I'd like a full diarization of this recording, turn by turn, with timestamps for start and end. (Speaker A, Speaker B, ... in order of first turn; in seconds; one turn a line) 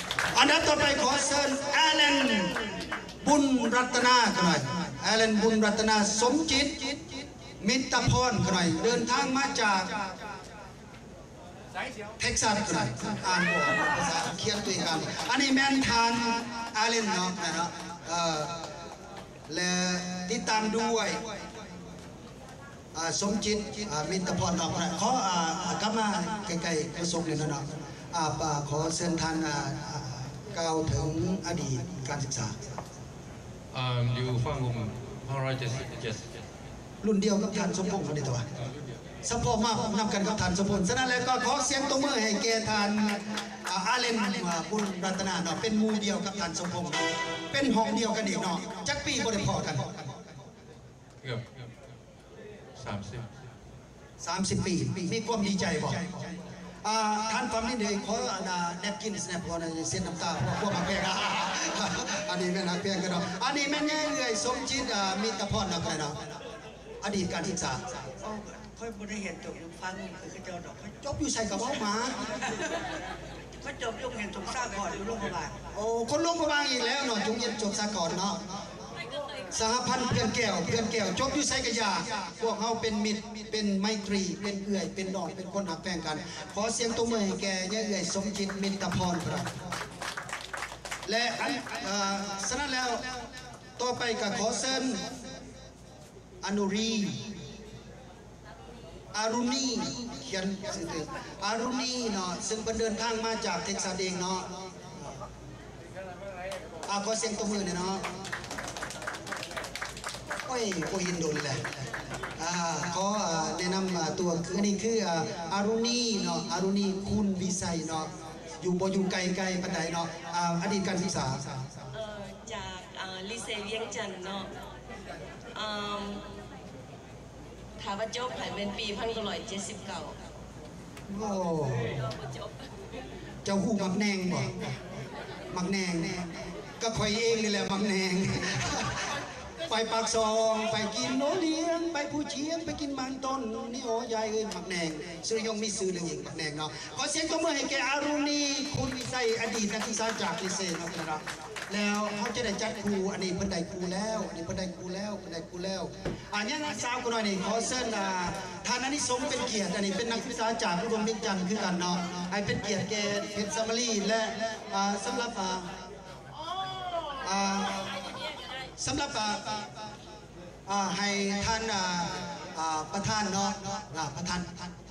Speaker A: 0.3-7.1
Speaker A: 7.6-10.1
Speaker A: 12.2-18.6
Speaker A: 19.5-21.2
Speaker A: 22.9-32.6
Speaker B: 33.7-36.5
Speaker A: 37.0-38.5
Speaker A: 39.2-50.0
Speaker B: 51.2-51.6
Speaker B: 52.8-53.3
Speaker A: 54.2-56.1
Speaker A: 56.8-66.2
Speaker A: 67.0-67.9
Speaker C: 68.2-71.0
Speaker A: 71.0-72.4
Speaker C: 73.6-75.6
Speaker A: 75.7-78.4
Speaker A: 79.5-89.6
Speaker A: 91.0-93.2
Speaker A: 93.8-95.0
Speaker A: 96.4-97.3
Speaker A: 99.1-105.2
Speaker A: 106.9-108.1
Speaker A: 110.5-111.7
Speaker A: 112.4-121.5
Speaker D: 121.9-124.5
Speaker D: 125.5-126.3
Speaker D: 127.8-130.2
Speaker A: 131.1-132.2
Speaker D: 132.2-132.6
Speaker A: 133.4-134.8
Speaker A: 135.5-139.1
Speaker A: 139.6-165.7
Speaker A: 167.2-168.0
Speaker A: 168.8-169.6
Speaker A: 170.7-174.7